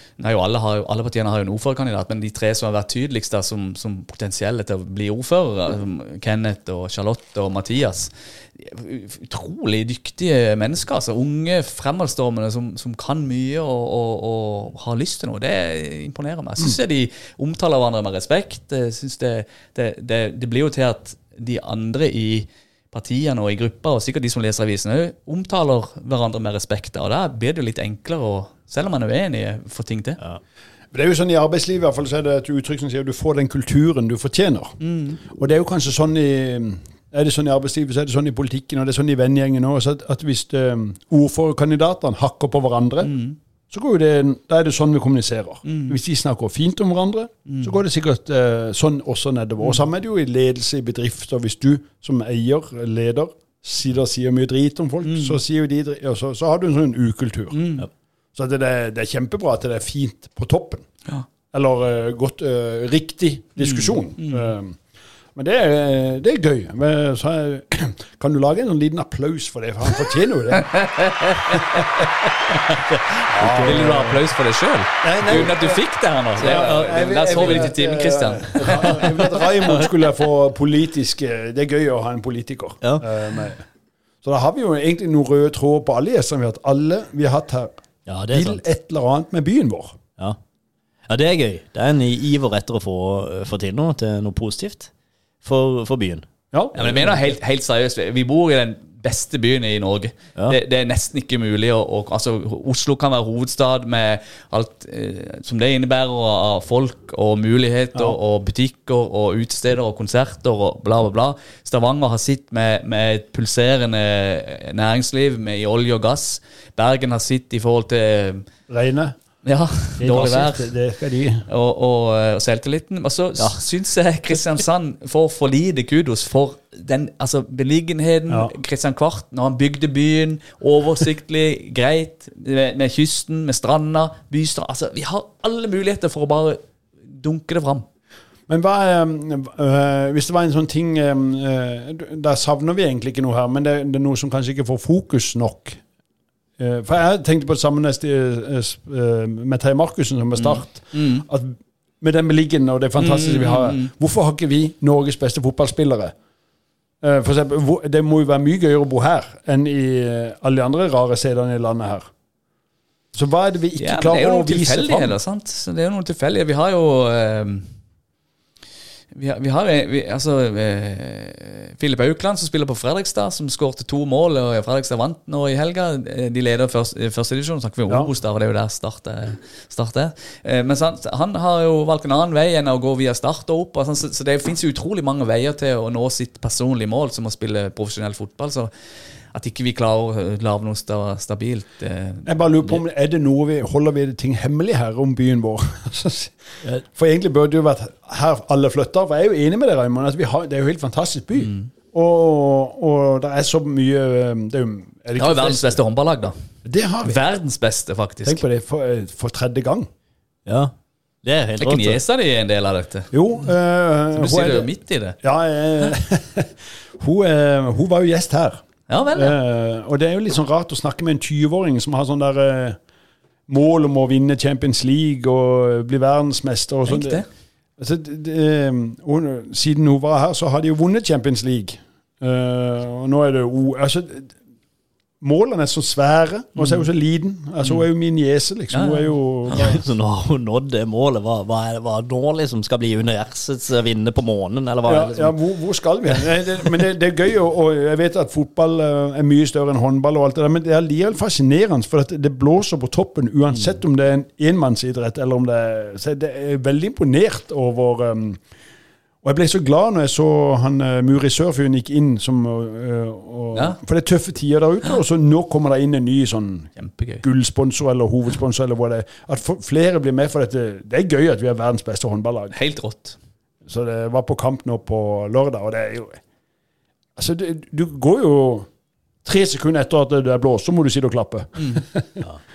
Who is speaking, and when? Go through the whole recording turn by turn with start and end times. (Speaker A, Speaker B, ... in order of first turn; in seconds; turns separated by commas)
Speaker A: 0.2-30.2, Speaker B: 30.9-43.1, Speaker A: 34.8-35.2, Speaker A: 43.0-43.4, Speaker B: 43.7-57.6, Speaker A: 45.6-46.0, Speaker A: 47.5-47.8, Speaker A: 55.0-55.4, Speaker A: 57.5-57.9, Speaker B: 58.4-60.9, Speaker B: 61.5-64.8, Speaker A: 63.6-64.5, Speaker B: 65.3-70.7, Speaker A: 70.5-79.3, Speaker B: 71.5-71.8, Speaker B: 73.3-74.2, Speaker C: 73.3-74.1, Speaker B: 75.0-75.8, Speaker C: 75.2-75.5, Speaker B: 76.4-83.7, Speaker C: 76.4-76.7, Speaker C: 79.6-79.9, Speaker B: 84.2-90.0, Speaker C: 88.1-88.6, Speaker C: 91.1-94.9, Speaker C: 95.4-96.3, Speaker B: 96.5-97.2, Speaker A: 96.8-118.5, Speaker B: 118.7-119.2, Speaker A: 119.4-120.7, Speaker B: 120.0-121.5, Speaker A: 121.5-137.9, Speaker B: 128.3-128.5, Speaker B: 138.5-145.8, Speaker B: 146.6-156.1, Speaker A: 150.4-151.3, Speaker A: 153.0-153.9, Speaker B: 157.0-162.1, Speaker B: 163.1-165.2, Speaker A: 163.8-167.7, Speaker A: 169.1-188.7, Speaker A: 189.3-192.3, Speaker B: 192.2-205.8, Speaker A: 201.4-201.7, Speaker A: 205.2-206.3, Speaker B: 206.6-207.2, Speaker A: 207.0-208.4, Speaker B: 208.2-209.9, Speaker C: 210.5-212.0, Speaker A: 211.6-213.1, Speaker B: 213.1-214.7, Speaker A: 214.2-215.2, Speaker B: 215.2-222.8, Speaker A: 218.9-219.4, Speaker B: 223.5-227.2, Speaker A: 226.9-227.3, Speaker B: 227.8-234.4, Speaker B: 235.2-239.8, Speaker A: 238.7-239.1, Speaker C: 239.5-245.3, Speaker B: 244.9-258.4, Speaker B: 259.2-266.7, Speaker A: 263.5-263.8, Speaker A: 266.8-267.2, Speaker B: 267.2-272.5, Speaker A: 272.5-273.2, Speaker B: 273.7-276.2, Speaker B: 277.2-278.7, Speaker B: 279.2-282.3, Speaker A: 281.6-281.8